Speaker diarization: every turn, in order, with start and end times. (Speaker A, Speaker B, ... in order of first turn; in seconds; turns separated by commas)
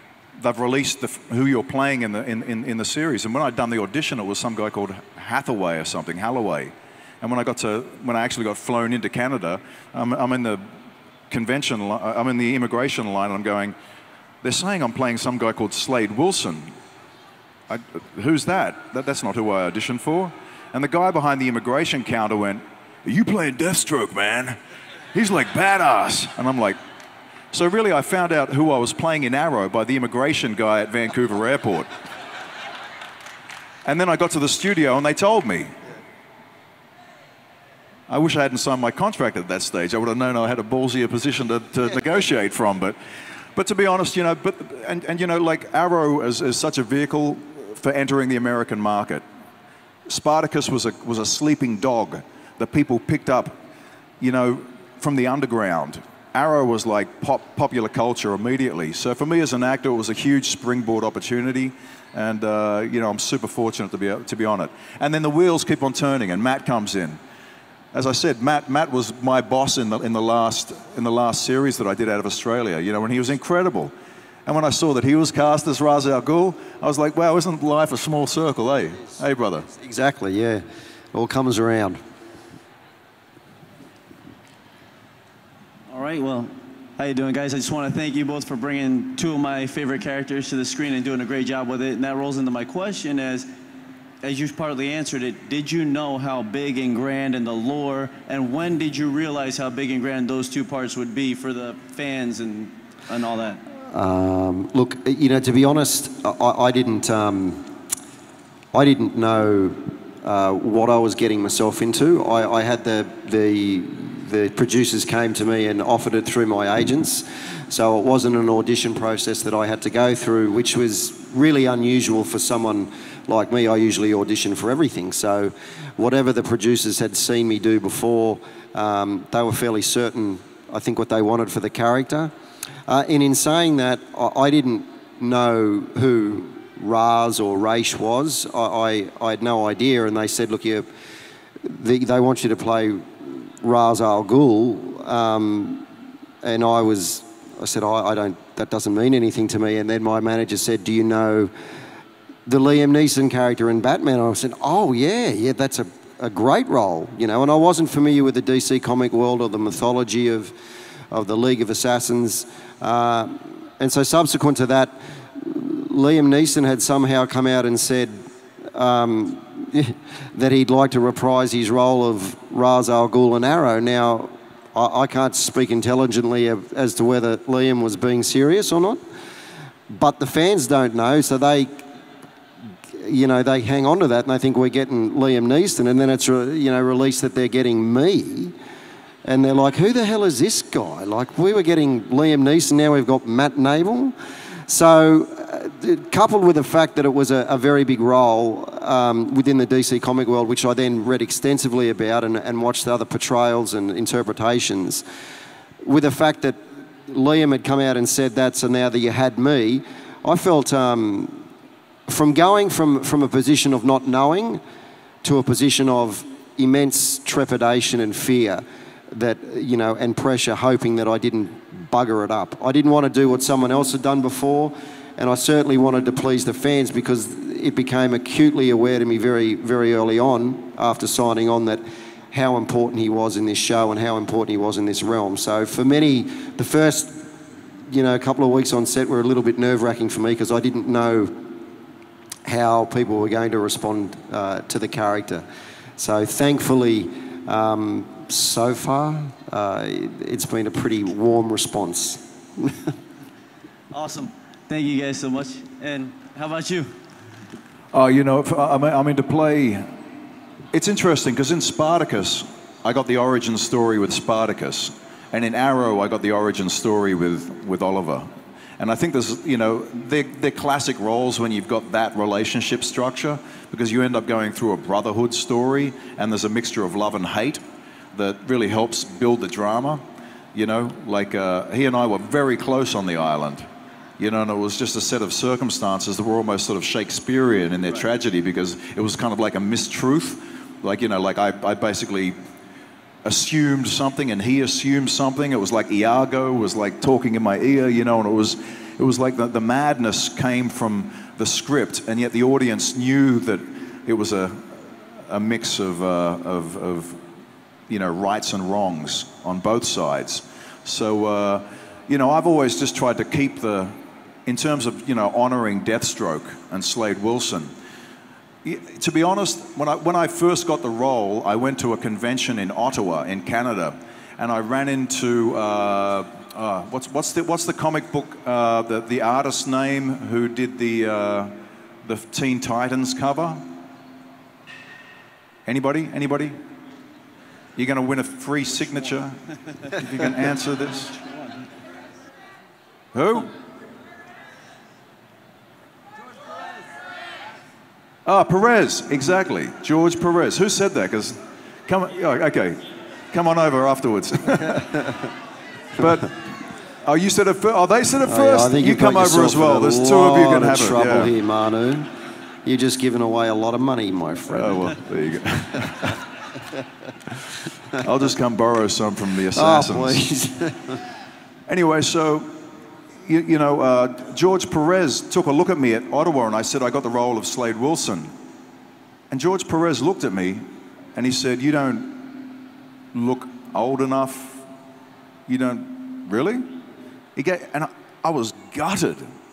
Speaker A: 0.4-10.7, Speaker A: 11.3-13.8, Speaker A: 14.4-16.7, Speaker A: 17.7-24.6, Speaker A: 25.1-26.8, Speaker A: 27.5-31.9, Speaker A: 33.9-35.7, Speaker A: 38.1-43.0, Speaker A: 43.6-49.2, Speaker A: 50.1-53.6, Speaker A: 54.2-67.2, Speaker A: 67.9-73.9, Speaker A: 74.5-79.7, Speaker B: 79.7-82.0, Speaker C: 85.9-93.5, Speaker C: 94.2-103.6, Speaker B: 103.9-107.7, Speaker B: 108.7-132.3, Speaker B: 132.9-140.9, Speaker B: 141.6-145.9, Speaker B: 146.4-151.5, Speaker B: 152.5-160.5, Speaker B: 161.1-179.0, Speaker B: 179.9-181.9, Speaker B: 182.9-188.5, Speaker B: 189.2-194.2, Speaker B: 194.7-205.0, Speaker B: 205.8-211.5, Speaker B: 212.1-214.6, Speaker B: 215.2-237.3, Speaker B: 237.9-241.4, Speaker B: 242.4-245.4, Speaker B: 246.0-252.8, Speaker C: 253.9-256.9, Speaker A: 257.9-259.9, Speaker A: 260.7-277.6, Speaker A: 278.1-283.7, Speaker A: 284.2-292.4, Speaker A: 293.2-307.2, Speaker A: 307.9-317.7, Speaker A: 318.6-333.7, Speaker A: 335.7-336.6, Speaker A: 337.8-339.4, Speaker C: 339.9-340.3, Speaker A: 340.0-341.1, Speaker C: 340.9-341.6, Speaker A: 343.1-343.5, Speaker A: 348.2-355.0, Speaker A: 356.0-356.5, Speaker A: 357.0-361.3, Speaker B: 358.2-362.1, Speaker B: 362.6-364.9, Speaker A: 364.5-366.2, Speaker A: 368.0-370.2, Speaker B: 369.6-371.0, Speaker A: 371.7-372.6, Speaker A: 373.2-378.3, Speaker A: 379.3-382.5, Speaker A: 383.1-384.6, Speaker A: 385.5-386.8, Speaker A: 387.4-389.3